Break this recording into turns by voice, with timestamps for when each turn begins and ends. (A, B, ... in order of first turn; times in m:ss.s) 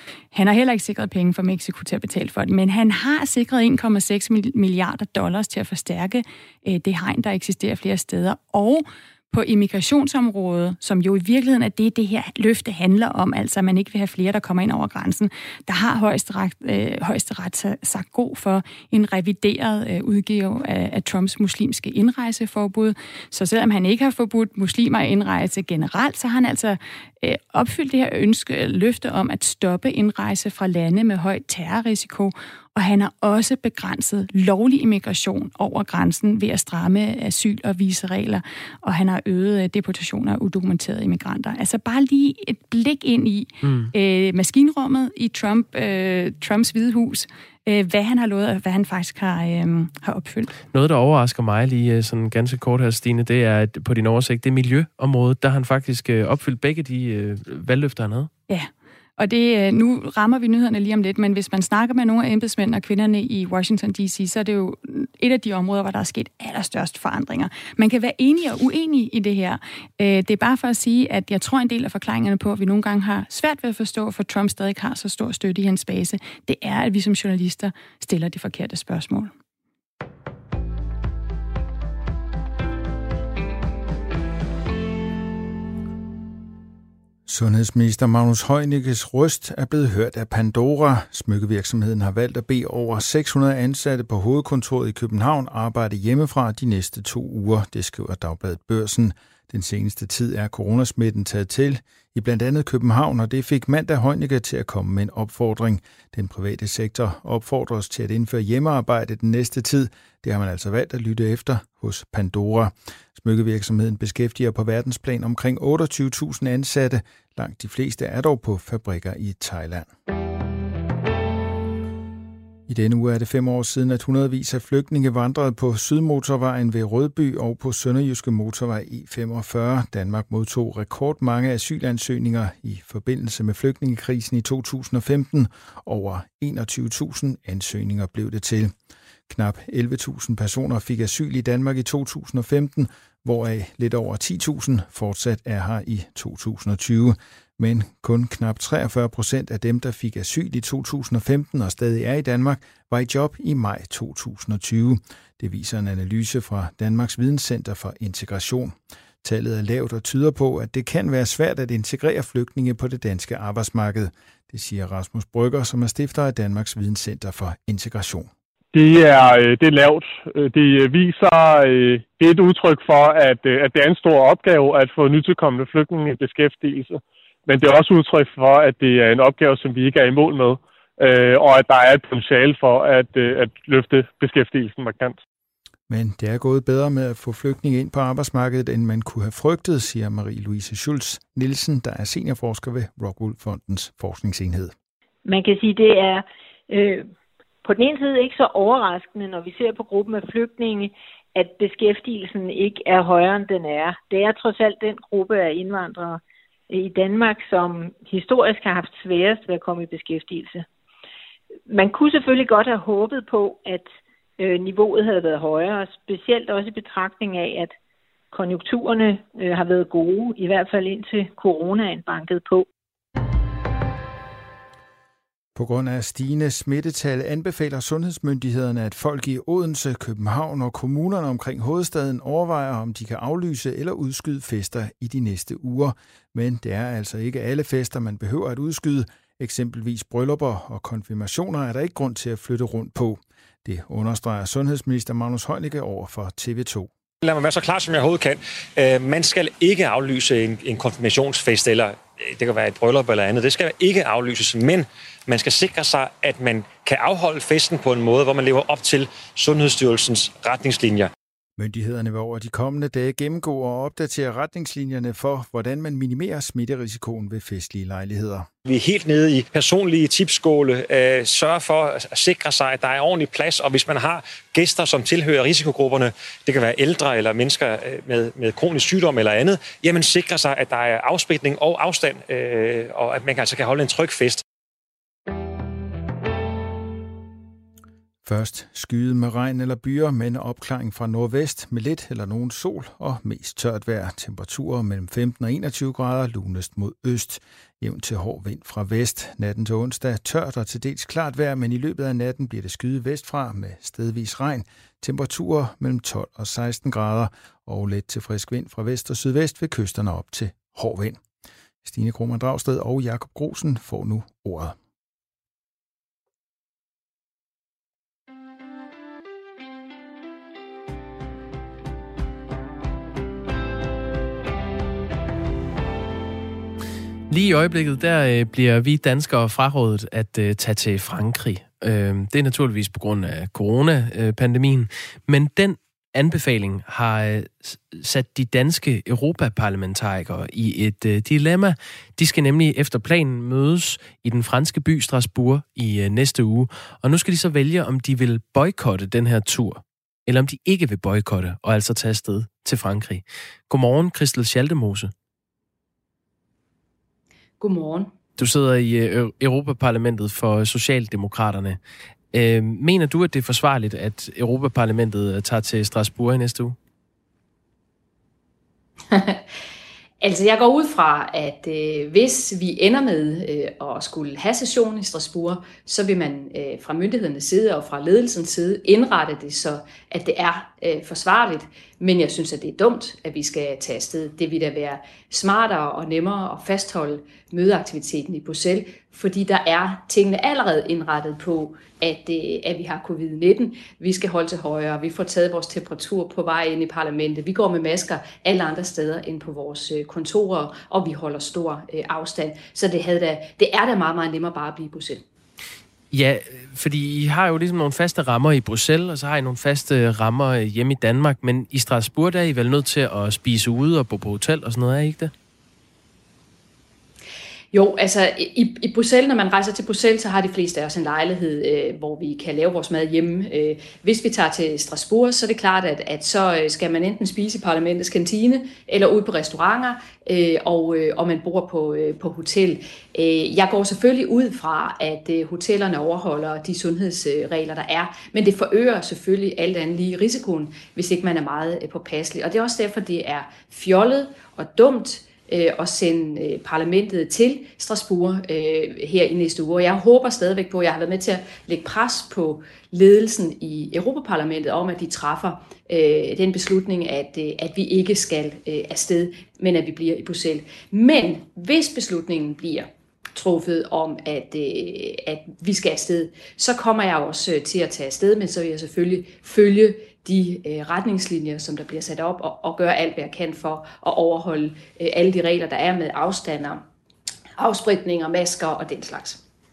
0:00.3-0:50.5 A
0:43.6-0:43.9 B
0:50.7-0:58.3 B
0:58.5-1:19.3 A
1:27.3-1:59.9 C
2:02.7-2:18.7 C
2:19.3-2:48.3 C
2:48.7-3:05.2 D
3:05.9-3:14.7 C
3:15.2-3:17.1 E
3:17.6-3:30.6 E
3:31.7-3:37.7 E
3:38.3-3:42.6 E
3:45.6-4:06.9 C
4:07.2-4:21.1 F
4:21.6-4:28.5 C
4:28.6-4:44.4 F
4:48.2-5:11.2 C
5:11.8-5:14.8 C
5:27.3-5:55.1 B
5:57.6-5:58.1 G
5:58.4-6:01.8 B
6:02.3-6:06.8 B
6:09.1-6:09.4 G
6:10.2-6:45.2 G
6:46.1-6:55.3 B
6:57.7-7:56.8 G
7:57.6-7:59.4 G